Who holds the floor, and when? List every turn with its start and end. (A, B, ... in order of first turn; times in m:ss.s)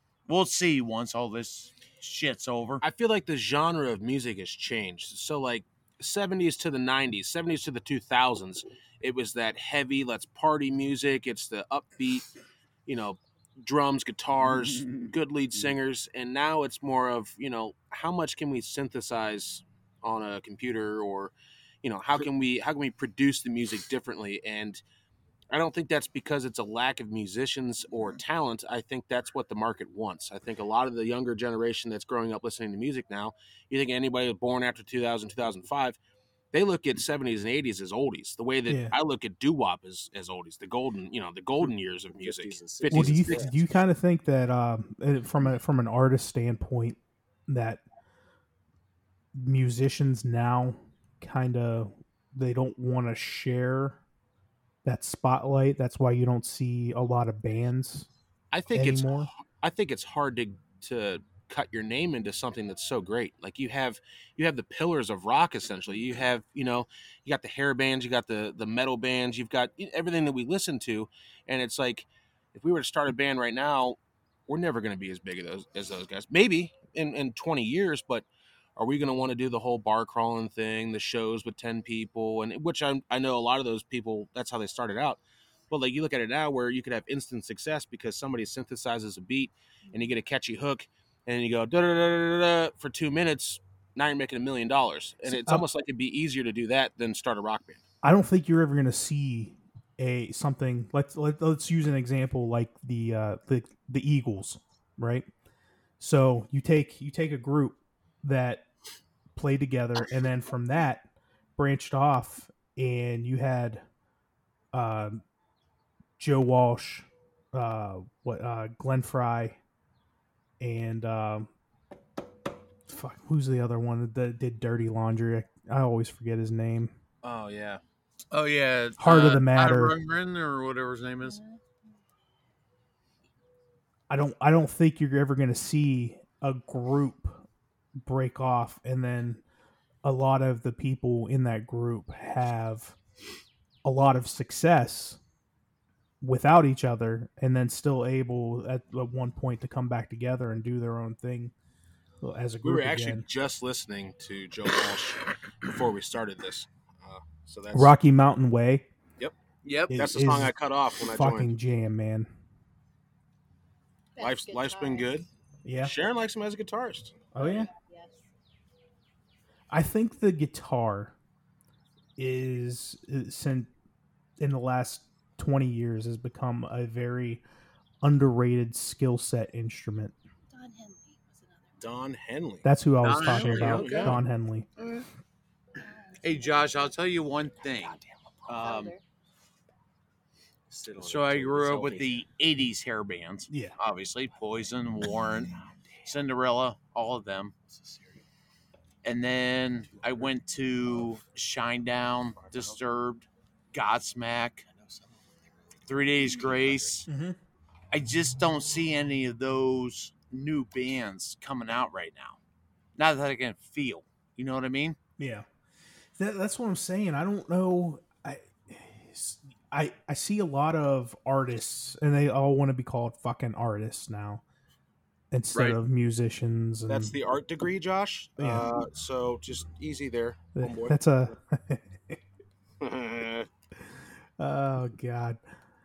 0:00.3-0:02.8 A
0:02.8-0:12.3 B
0:12.8-0:24.8 B
0:25.5-0:36.0 B
0:36.5-0:43.5 B
0:38.7-0:38.9 C
0:42.2-0:43.7 D
0:42.9-0:47.8 C
0:49.3-0:54.0 C
0:54.8-0:58.1 C
0:58.5-1:18.2 B
0:58.7-0:59.3 C
1:18.8-1:37.8 B
1:35.2-1:35.6 C
1:38.0-1:45.3 C
1:46.0-1:48.6 C
1:49.3-1:53.8 C
1:54.7-1:55.2 C
1:56.2-1:59.6 C
2:00.6-2:01.5 C
2:02.9-2:06.9 C
2:07.2-2:07.8 B
2:08.3-2:11.4 A
2:09.0-2:10.0 C
2:11.2-2:11.6 E
2:14.1-2:17.4 C
2:18.0-2:19.4 C
2:20.0-2:22.9 C
2:23.8-2:25.2 C
2:26.2-2:31.5 C
2:32.2-2:33.3 C
2:32.6-2:37.9 B
2:37.7-2:38.9 C
2:39.6-2:40.0 A
2:39.9-2:42.3 C
2:39.9-2:41.5 B
2:44.1-2:45.2 E
2:44.2-2:45.2 B
2:45.6-2:45.9 C
2:45.8-2:47.1 B
2:47.3-2:47.7 C
2:47.4-2:48.2 E
2:49.7-2:51.1 C
2:52.2-2:53.7 C
2:54.4-2:57.4 C
2:58.0-3:00.1 C
3:00.5-3:02.0 E
3:01.8-3:02.6 B
3:02.6-3:04.7 C
3:03.0-3:04.1 A
3:03.3-3:04.2 B
3:03.5-3:04.2 D
3:03.8-3:04.2 E
3:05.8-3:07.0 E
3:06.2-3:08.9 A
3:08.5-3:09.0 E
3:10.7-3:12.2 D
3:11.0-3:17.5 A
3:13.5-3:13.7 C
3:17.7-3:18.2 D
3:19.0-3:24.7 A
3:19.9-3:20.3 D
3:22.4-3:22.8 D
3:24.7-3:27.0 D
3:25.9-3:27.1 A
3:27.1-3:27.4 C
3:27.9-3:32.4 A
3:33.0-3:35.0 A
3:35.2-3:35.5 C
3:36.2-3:44.4 C
3:45.3-3:47.1 C
3:46.9-3:51.0 B
3:48.4-3:48.7 C
3:50.5-3:52.2 C
3:52.8-3:53.5 B
3:54.4-3:55.4 C